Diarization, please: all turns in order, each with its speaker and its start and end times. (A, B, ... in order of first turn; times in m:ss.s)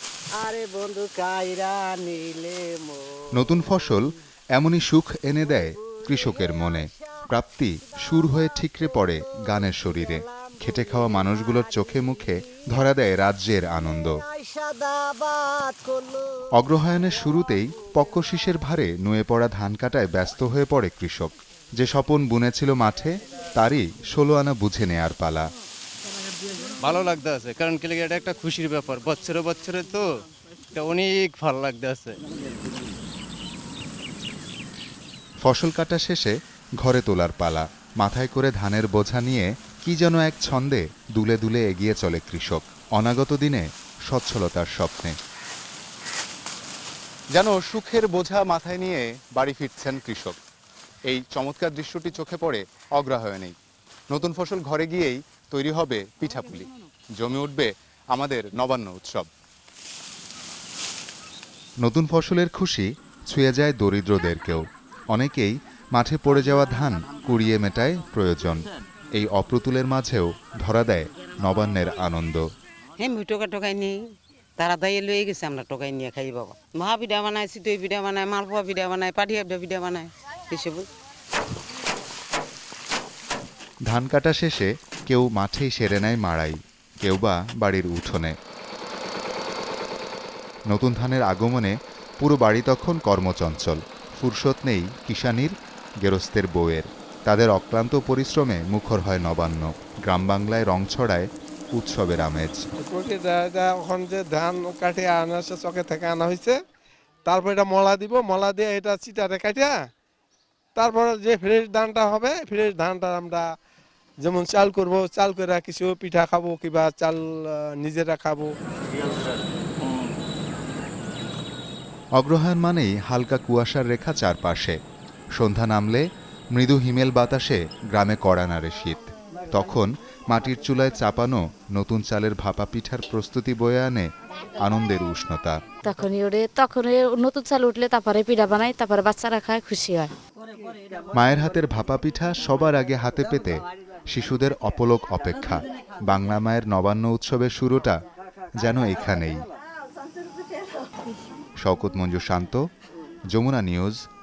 0:00.4-0:02.9 A
0:03.4-0:14.2 B
0:05.8-0:07.0 A
0:09.6-0:12.5 A
0:13.9-0:16.2 A
0:16.6-0:25.5 B
0:26.8-0:30.0 C
0:30.7-0:32.2 C
0:35.4-0:45.2 B
0:47.3-0:50.4 B
0:51.0-0:53.5 B
0:54.1-0:59.3 B
1:01.8-1:12.5 B
1:13.0-1:14.0 D
1:14.6-1:20.9 D
1:23.9-1:28.4 B
1:30.7-1:42.6 B
1:42.8-1:46.6 E
1:47.2-1:49.8 E
1:50.8-1:53.5 E
1:54.2-1:58.5 E
2:02.1-2:04.8 B
2:05.4-2:15.6 B
2:15.8-2:20.1 F
2:21.1-2:28.0 B
2:28.6-2:29.4 B
2:31.6-2:32.7 B
2:33.3-2:34.0 B